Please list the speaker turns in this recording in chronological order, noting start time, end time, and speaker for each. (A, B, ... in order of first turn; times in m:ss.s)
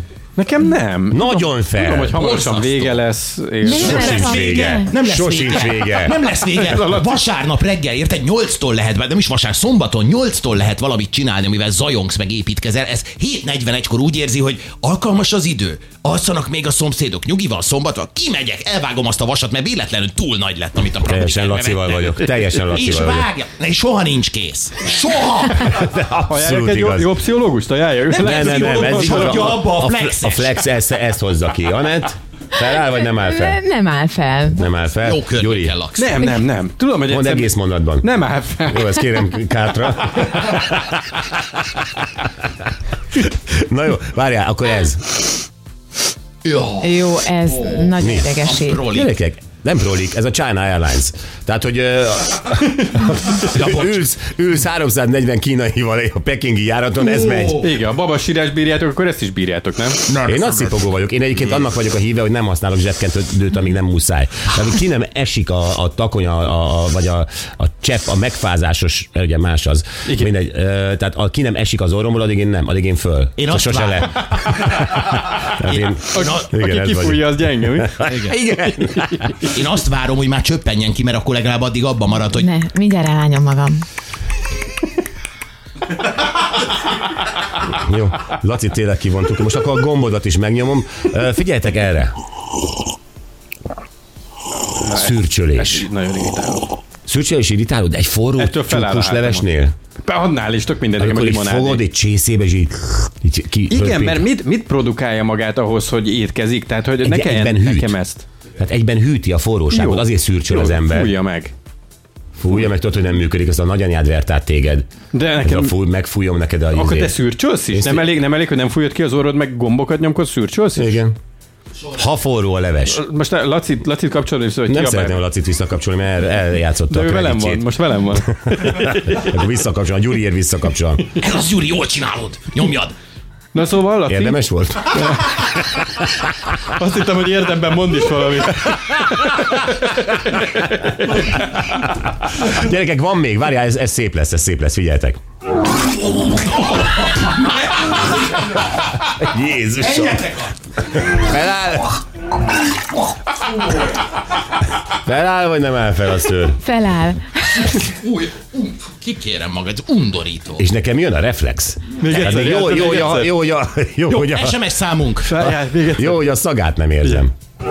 0:00.4-0:04.2 A
0:01.1-0:02.2 B
0:02.1-0:03.0 C
0:03.6-0:05.0 D
0:03.7-0:25.7 C
0:03.8-0:06.2 B
0:21.0-0:23.3 B
0:25.6-0:27.1 B
0:26.3-0:29.5 A
0:28.1-0:30.6 C
0:28.2-0:33.6 B
0:33.1-0:34.6 D
0:34.6-0:35.7 B
0:35.0-0:36.3 C
0:36.0-0:39.0 A
0:37.1-0:38.1 B
0:38.7-0:41.2 B
0:43.5-0:45.1 B
0:46.4-0:49.1 C
0:46.8-0:48.8 D
0:48.0-0:48.3 B
0:48.9-0:57.7 B
0:53.4-0:54.1 C
0:57.0-0:57.7 C
0:57.6-1:00.0 A
1:00.0-1:00.8 C
1:00.2-1:19.4 B
1:10.0-1:10.3 A
1:13.4-1:16.5 C
1:16.1-1:18.1 A
1:18.0-1:18.4 C
1:19.5-1:22.5 C
1:22.3-1:23.8 D
1:27.6-1:32.1 B
1:34.8-1:36.6 A
1:34.8-1:35.9 B
1:37.1-1:39.7 B
1:38.4-1:39.5 A
1:40.0-1:41.8 A
1:41.0-1:44.3 B
1:43.7-1:48.2 A
1:47.0-1:48.0 B
1:48.6-1:51.2 B
1:49.7-1:51.5 A
1:52.4-1:54.9 B
1:55.1-1:55.7 A
1:55.4-1:57.1 B
1:56.7-2:01.0 A
1:57.7-1:58.1 B
2:00.8-2:01.2 B
2:01.9-2:03.0 B
2:02.9-2:05.2 A
2:04.7-2:07.7 B
2:06.9-2:09.3 A
2:08.5-2:11.1 B
2:11.2-2:12.9 C
2:13.5-2:14.4 A
2:14.1-2:15.2 B
2:14.9-2:15.5 A
2:16.6-2:19.6 A
2:22.3-2:25.2 B
2:29.0-2:30.4 B
2:29.9-2:30.5 C
2:30.9-2:32.0 B
2:34.9-2:36.6 B
2:36.6-2:37.7 D
2:37.5-2:40.6 C
2:40.6-2:44.6 B
2:42.0-2:43.3 A
2:44.1-2:45.3 C
2:45.2-2:46.2 A
2:45.4-2:47.3 B